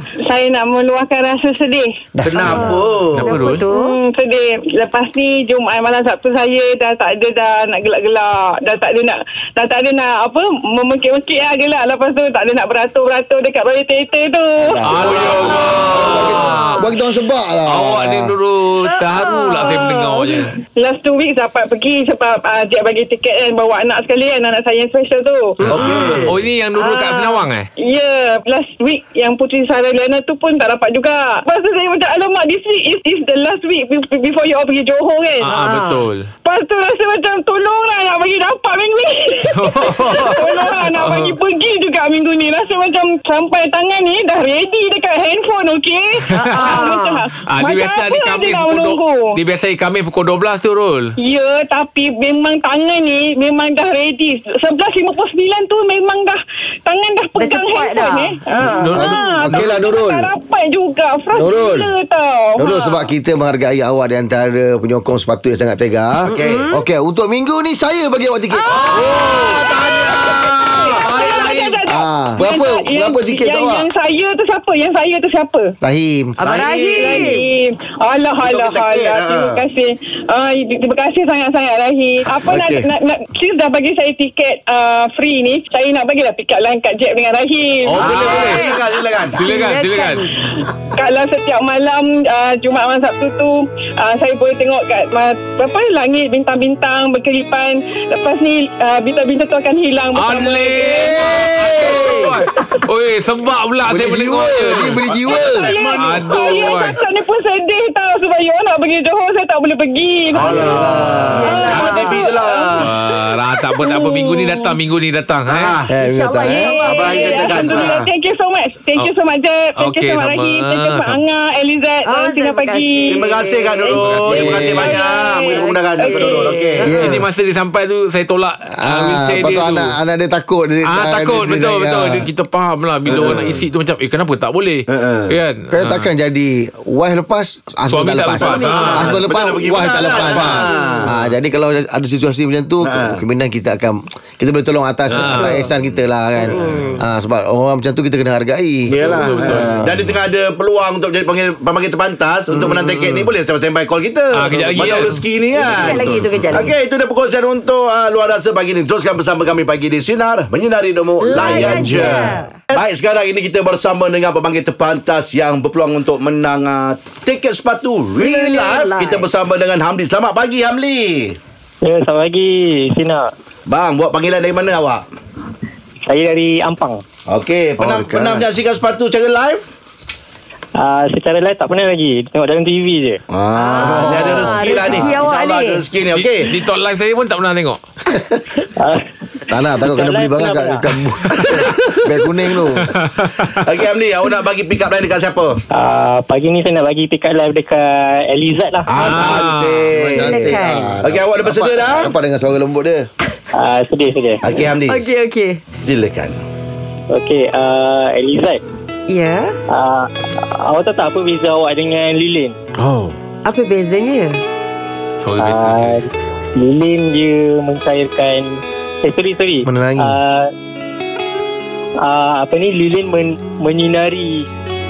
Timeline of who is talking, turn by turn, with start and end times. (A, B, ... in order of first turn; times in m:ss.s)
0:00.2-0:01.9 A
0:02.2-0:02.8 B
0:02.2-0:03.4 C
0:02.4-0:04.0 D
0:03.2-0:03.6 E
0:03.5-0:15.9 A
0:14.7-0:18.3 B
0:14.8-0:16.8 E
0:15.0-0:16.4 C
0:17.7-0:20.6 E
0:18.8-0:19.6 D
0:19.6-0:26.0 A
0:25.6-0:27.7 E
0:25.6-0:26.4 C
0:26.7-0:35.5 A
0:35.4-0:36.3 E
0:35.5-0:36.1 D
0:36.4-0:49.2 A
0:39.5-0:41.4 E
0:46.3-0:46.8 E
0:46.8-0:47.2 D
0:47.4-0:51.1 E
0:51.2-1:03.1 A
0:57.4-0:58.4 D
0:58.6-0:59.8 E
0:58.9-1:00.3 B
1:01.4-1:01.9 B
1:02.6-1:08.8 B
1:06.2-1:06.7 C
1:06.3-1:06.9 D
1:08.8-1:15.7 A
1:08.8-1:10.6 C
1:08.8-1:11.9 E
1:11.9-1:13.9 B
1:15.8-1:16.4 B
1:16.4-1:17.5 D
1:16.4-1:17.5 C
1:16.6-1:28.5 A
1:18.4-1:19.6 C
1:22.5-1:22.8 B
1:27.9-1:28.6 E
1:28.0-1:29.4 C
1:28.4-1:30.3 D
1:29.3-1:30.2 E
1:30.4-1:41.4 A
1:40.1-1:45.0 E
1:41.3-1:42.1 B
1:41.9-1:42.3 A
1:43.9-1:46.2 C
1:44.3-1:45.7 B
1:45.3-1:52.7 A
1:45.9-1:47.0 E
1:50.4-1:52.9 C
1:50.4-1:51.6 B
1:51.4-1:52.3 D
1:52.8-1:55.8 E
1:53.8-1:54.8 A
1:55.5-1:56.0 C
1:55.9-1:56.8 B
1:56.0-1:58.0 D
1:56.5-2:03.3 A
1:56.9-1:58.0 C
1:59.8-2:01.2 E
2:02.0-2:04.5 D
2:03.1-2:06.9 C
2:03.8-2:06.8 A
2:03.9-2:05.0 E
2:06.0-2:07.2 D
2:06.8-2:07.3 B
2:06.9-2:09.9 E
2:08.8-2:12.3 B
2:10.9-2:16.1 E
2:13.0-2:13.6 C
2:14.9-2:15.4 C
2:15.7-2:30.0 B
2:17.9-2:19.2 E
2:18.4-2:21.1 C
2:18.5-2:19.0 D
2:20.2-2:20.6 E
2:22.8-2:23.2 C
2:25.1-2:25.6 E
2:26.4-2:27.1 D
2:28.9-2:51.4 C
2:29.0-2:29.7 E
2:32.5-2:33.3 B
2:34.3-2:36.2 E
2:35.5-2:36.8 D
2:41.2-2:42.6 D
2:41.4-2:42.2 B
2:48.2-2:49.3 D
2:51.8-2:53.2 F
2:53.7-2:55.0 C
2:56.1-2:57.0 F
2:57.3-2:59.6 C
2:57.8-2:58.5 B
3:00.8-3:03.2 F
3:03.3-3:06.5 C
3:03.5-3:05.9 D
3:03.8-3:04.6 B
3:06.1-3:07.8 E
3:08.1-3:08.4 B
3:09.5-3:12.9 B
3:10.0-3:10.8 F
3:11.5-3:12.0 C
3:13.0-3:13.6 E
3:13.5-3:15.6 C
3:15.8-3:18.8 F
3:18.9-3:20.4 C
3:19.0-3:19.9 E
3:19.9-3:23.1 B
3:20.1-3:21.0 D
3:21.0-3:22.1 C
3:23.5-3:24.4 F
3:24.4-3:25.1 C
3:24.8-3:25.7 D
3:25.7-3:26.4 C
3:27.1-3:28.6 F
3:29.1-3:29.6 D
3:29.7-3:32.5 F
3:33.4-3:34.4 D
3:35.2-3:36.0 E
3:35.4-3:36.0 F
3:36.6-3:40.5 F
3:39.6-3:40.2 B
3:42.0-3:44.4 F